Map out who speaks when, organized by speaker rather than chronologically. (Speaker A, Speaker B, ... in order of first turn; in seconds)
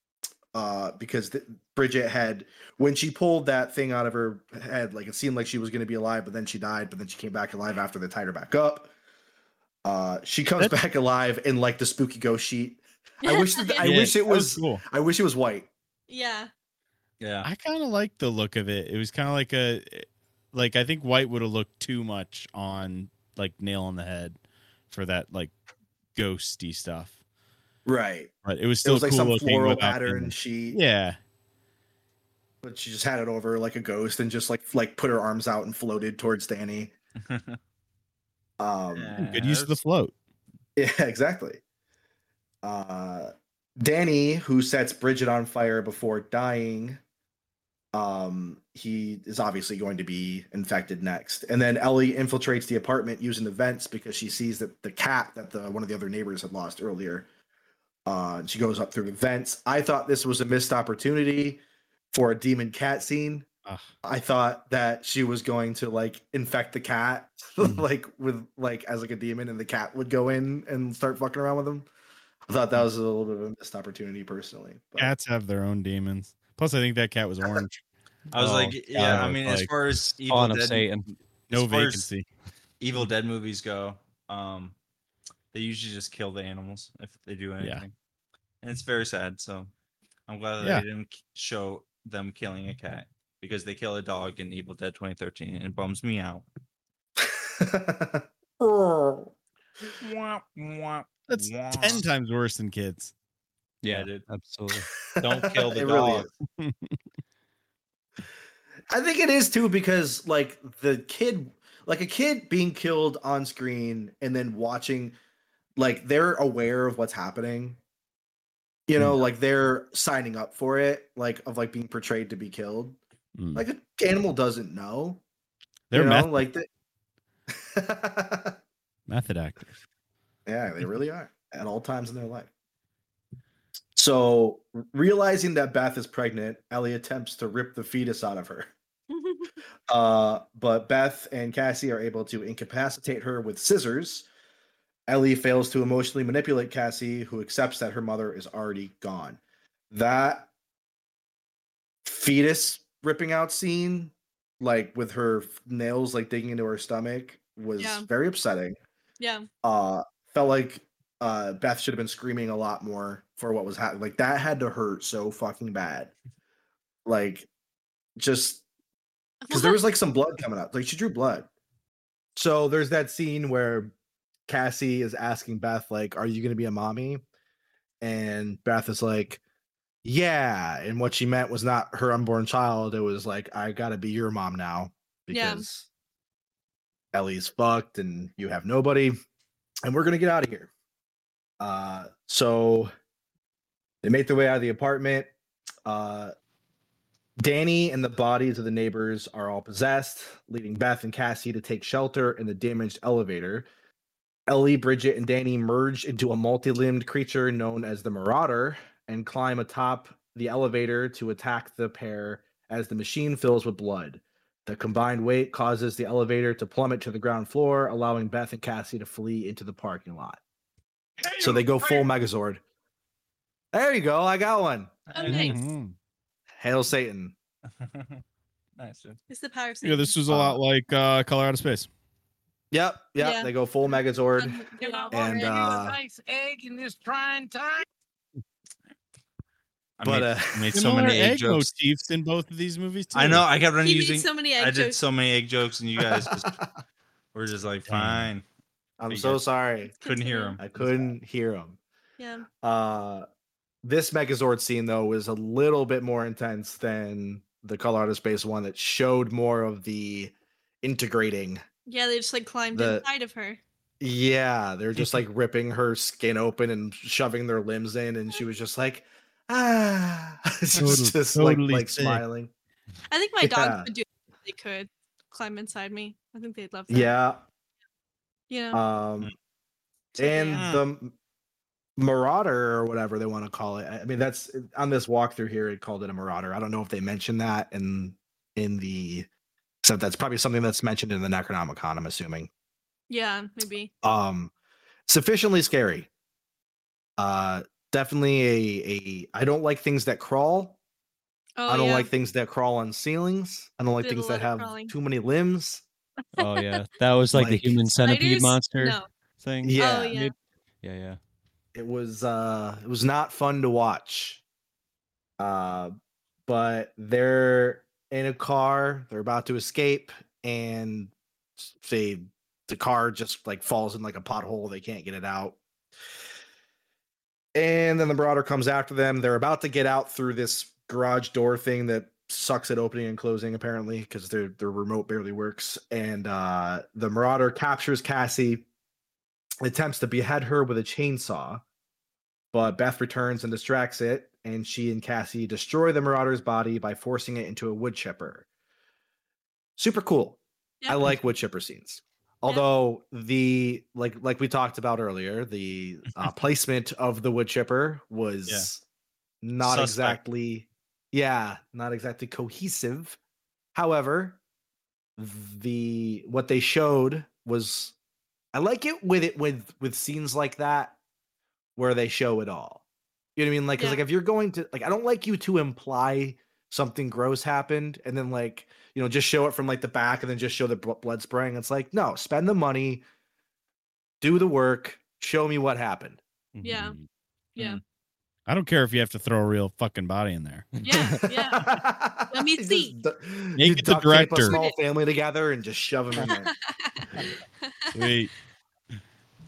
Speaker A: 0.5-8.9, 9.8-15.7, 27.9-28.3, 28.8-30.8, 32.6-36.9, 38.6-39.1, 40.8-41.6, 42.6-47.0, 47.9-57.3, 58.0-61.6, 62.1-63.5, 64.0-71.9, 72.5-75.1, 97.2-99.3, 105.1-106.3, 108.9-115.2, 115.8-117.8, 118.9-123.0, 123.5-125.2, 125.9-126.7, 127.5-128.6, 130.4-132.5, 133.9-138.7, 139.9-144.3, 145.1-149.4, 149.9-150.5, 152.0-158.8, 159.6-166.1, 167.0-167.5, 168.2-168.6, 169.5-171.5, 172.3-173.9, 174.5-177.2, 178.0-179.4, 180.0-185.8, 187.1-189.1, 189.8-190.7, 191.6-192.9, 194.0-195.3, 195.8-196.3, 197.4-203.7, 204.5-220.4, 221.4-222.6, 223.7-224.9, 226.6-227.3, 230.3-230.6, 232.7-234.6, 235.1-236.0, 240.0-240.7, 246.0-246.7, 249.0-249.9, 250.6-251.8, 252.6-253.2, 253.8-261.6, 262.7-263.0, 264.0-272.5, 273.4-273.9, 276.9-277.4, 278.7-279.3, 280.1-281.1, 282.0-289.3, 289.8-292.5, 294.0-294.5, 295.1-296.1, 297.2-300.8, 301.7-305.8, 307.3-307.9, 309.6-310.1, 311.7-314.4, 315.4-315.9, 316.5-325.6, 327.5-338.6, 339.6-341.6, 342.5-348.4, 349.8-358.8, 359.4-363.2, 363.7-364.4, 365.2-367.9, 368.5-370.9, 371.8-372.8, 373.4-383.0, 384.2-386.2, 391.5-396.5
Speaker B: 13.2-13.8, 16.1-16.5, 139.1-139.5, 157.8-158.1, 159.2-159.5, 169.4-169.8, 185.3-185.6, 225.1-225.6, 229.3-230.1, 233.2-235.5, 243.8-245.0, 250.0-250.6, 252.2-252.5, 261.9-263.6, 273.1-277.1, 278.5-278.8, 280.1-280.6, 293.1-293.9, 301.6-302.1, 304.0-304.9, 306.4-306.8, 308.0-309.1, 309.8-310.3, 373.8-374.0, 386.6-386.9, 390.8-391.7, 392.3-392.9, 394.5-394.7, 396.3-398.1
Speaker C: 13.8-14.8, 17.4-25.5, 26.1-27.2, 28.4-31.2, 39.2-40.1, 75.0-77.8, 78.3-79.7, 81.5-82.3, 90.6-90.8, 101.3-103.1, 106.6-107.0, 123.4-123.6, 125.9-126.4, 129.1-129.7, 225.2-225.9, 229.8-231.9, 240.6-243.4, 247.9-248.3, 270.8-272.2, 388.5-390.7, 393.6-394.6, 397.9-398.3
Speaker D: 17.2-17.5, 37.2-37.6, 38.9-39.8, 78.3-80.9, 81.5-82.0, 82.8-84.7, 85.5-87.9, 88.6-89.7, 90.3-96.5, 99.9-102.0, 103.8-104.2, 105.2-106.3, 225.1-225.6, 227.8-228.2, 228.8-229.2, 240.0-241.7, 243.1-246.5, 247.3-248.4, 249.1-250.9, 280.6-280.8, 359.6-360.2
Speaker E: 80.2-81.1, 103.8-104.9, 306.4-311.2, 386.5-386.9, 390.8-391.3
Speaker F: 221.2-222.1, 234.8-237.8